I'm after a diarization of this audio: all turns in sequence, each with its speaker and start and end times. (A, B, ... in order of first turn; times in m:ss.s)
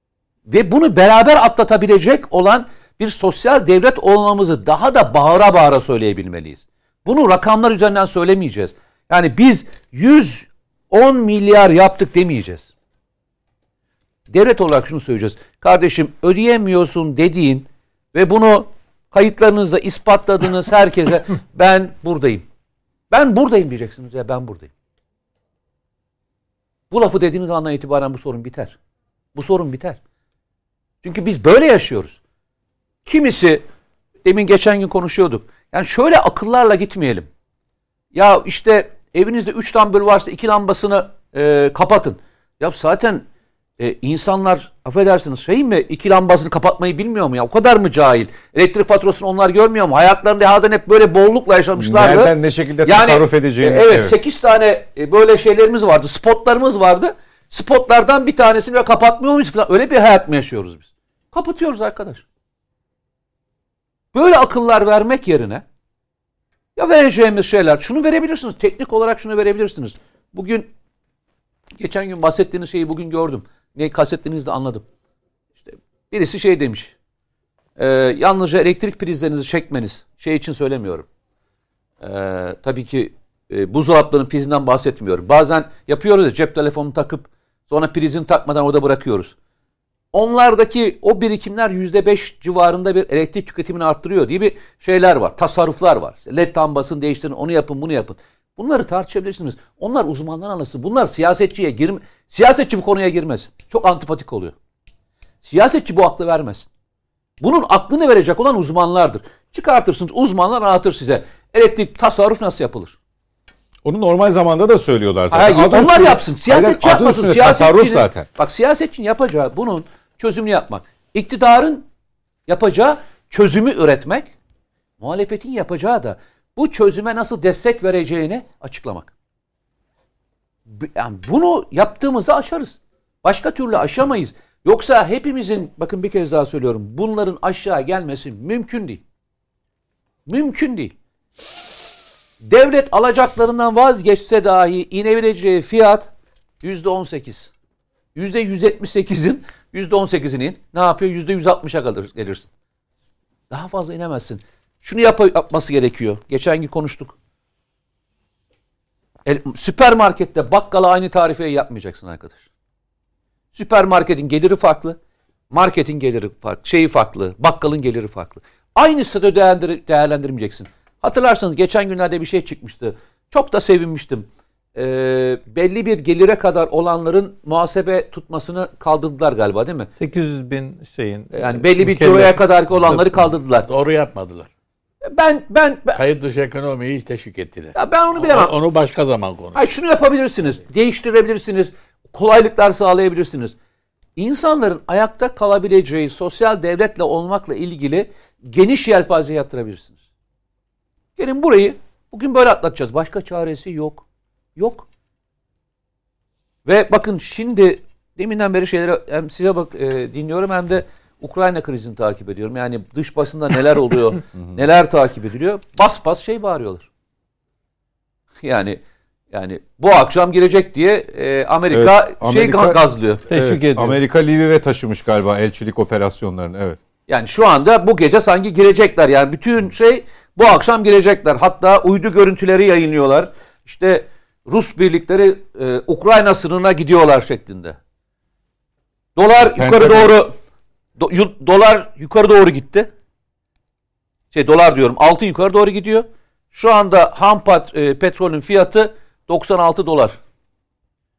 0:00.5-0:12.7 A
0:14.3-0:22.4 A
0:23.1-0:24.7 A
0:26.9-0:28.8 A
0:29.4-0:30.0 A
0:31.0-0:32.2 A
0:33.0-0:33.6 A
0:34.2-0:37.3 A
0:38.1-0:43.3 A
0:43.8-1:02.2 A
0:51.8-0:54.2 B
1:04.1-1:05.6 A
1:06.8-1:10.7 A
1:11.8-1:14.9 A
1:15.6-1:17.0 A
1:17.8-1:21.1 A
1:22.0-1:29.3 A
1:30.1-1:44.6 A
1:45.4-1:46.7 A
1:47.4-1:53.0 A
1:53.8-1:58.3 B
1:55.3-2:01.8 A
2:02.5-2:04.3 A
2:05.0-2:09.1 A
2:10.7-2:19.0 A
2:20.3-2:20.9 A
2:22.4-2:26.1 A
2:26.6-2:27.5 A
2:28.2-2:32.5 A
2:33.5-2:37.2 A
2:39.2-2:42.4 A
2:43.5-2:45.0 A
2:45.5-2:59.9 A
3:00.0-3:02.4 C
3:01.3-3:03.7 A
3:03.7-3:04.5 D
3:05.0-3:06.0 A
3:06.0-3:09.6 D
3:07.8-3:08.5 A
3:09.6-3:13.6 A
3:14.2-3:20.0 A
3:21.2-3:24.0 A
3:24.6-3:24.9 A
3:26.6-3:36.9 A
3:38.4-3:43.2 A
3:41.7-3:46.8 B
3:43.3-3:44.0 C
3:47.1-3:57.8 A
3:59.2-4:00.4 A
3:59.6-4:00.0 B
4:01.0-4:02.9 A
4:04.3-4:10.2 A